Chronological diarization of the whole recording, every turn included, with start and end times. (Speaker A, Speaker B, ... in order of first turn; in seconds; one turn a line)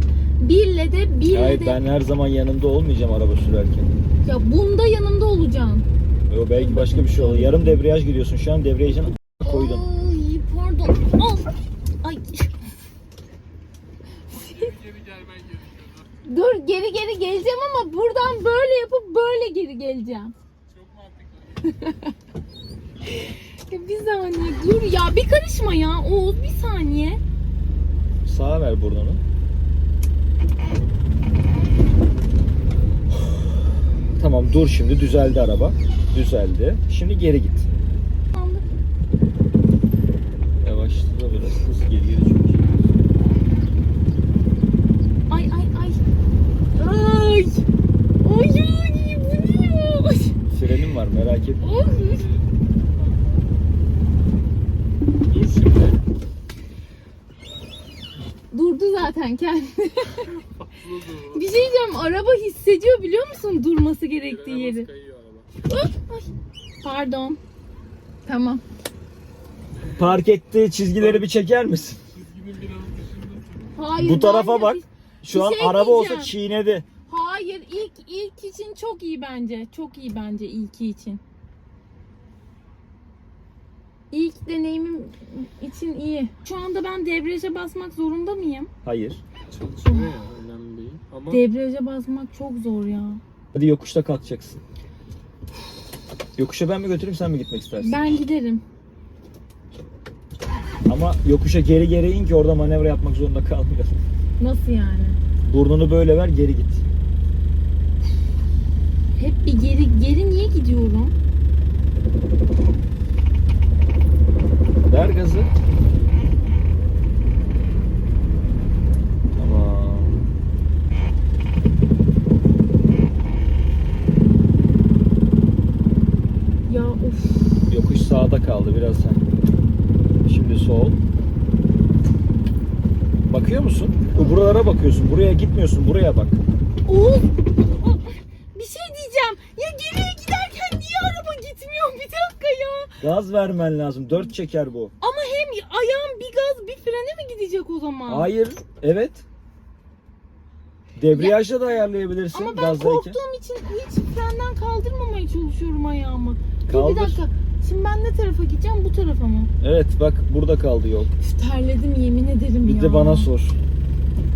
Speaker A: 0.4-1.8
Speaker B: 1.3-3.9
Speaker A: 4.2-5.9
Speaker B: 6.3-9.8
Speaker A: 6.6-7.8
Speaker A: 9.4-12.5
Speaker C: 14.3-16.1
Speaker A: 14.3-14.7
Speaker A: 16.2-20.3
Speaker C: 20.7-21.6
Speaker A: 21.6-22.1
Speaker A: 23.1-27.2
Speaker B: 28.2-29.2
Speaker B: 34.2-37.7
Speaker A: 38.3-38.6
Speaker B: 40.6-42.9
Speaker A: 45.3-46.0
Speaker A: 46.8-47.6
Speaker A: 48.2-50.3
Speaker B: 50.5-51.6
Speaker A: 51.6-52.3
Speaker C: 51.8-53.5
Speaker C: 55.3-56.0
Speaker A: 58.5-60.3
Speaker C: 60.3-61.5
Speaker A: 61.3-64.9
Speaker C: 64.2-65.5
Speaker A: 65.7-67.4
Speaker A: 68.2-68.6
Speaker B: 69.9-72.0
Speaker C: 71.0-71.2
Speaker C: 72.1-73.7
Speaker A: 73.7-76.3
Speaker B: 74.0-76.8
Speaker A: 77.1-81.2
Speaker A: 84.1-88.7
Speaker B: 88.8-89.2
Speaker C: 89.5-91.4
Speaker A: 89.8-90.1
Speaker A: 91.3-93.2
Speaker B: 93.5-94.6
Speaker B: 96.4-98.0
Speaker A: 97.8-98.6
Speaker B: 100.9-104.0
Speaker A: 104.4-105.2
Speaker B: 105.4-106.8
Speaker A: 109.2-111.1
Speaker B: 114.9-115.5
Speaker B: 119.3-120.2
Speaker A: 126.7-127.7
Speaker B: 127.7-129.2
Speaker B: 130.2-131.0
Speaker B: 133.3-136.4
Speaker A: 136.8-142.9
Speaker B: 143.0-144.9
Speaker A: 145.0-148.3
Speaker B: 148.1-149.2
Speaker B: 150.9-153.2
Speaker A: 151.1-151.4
Speaker A: 152.3-159.5
Speaker B: 156.7-157.2
Speaker B: 159.6-161.1
Speaker A: 161.2-163.3
Speaker B: 162.6-163.6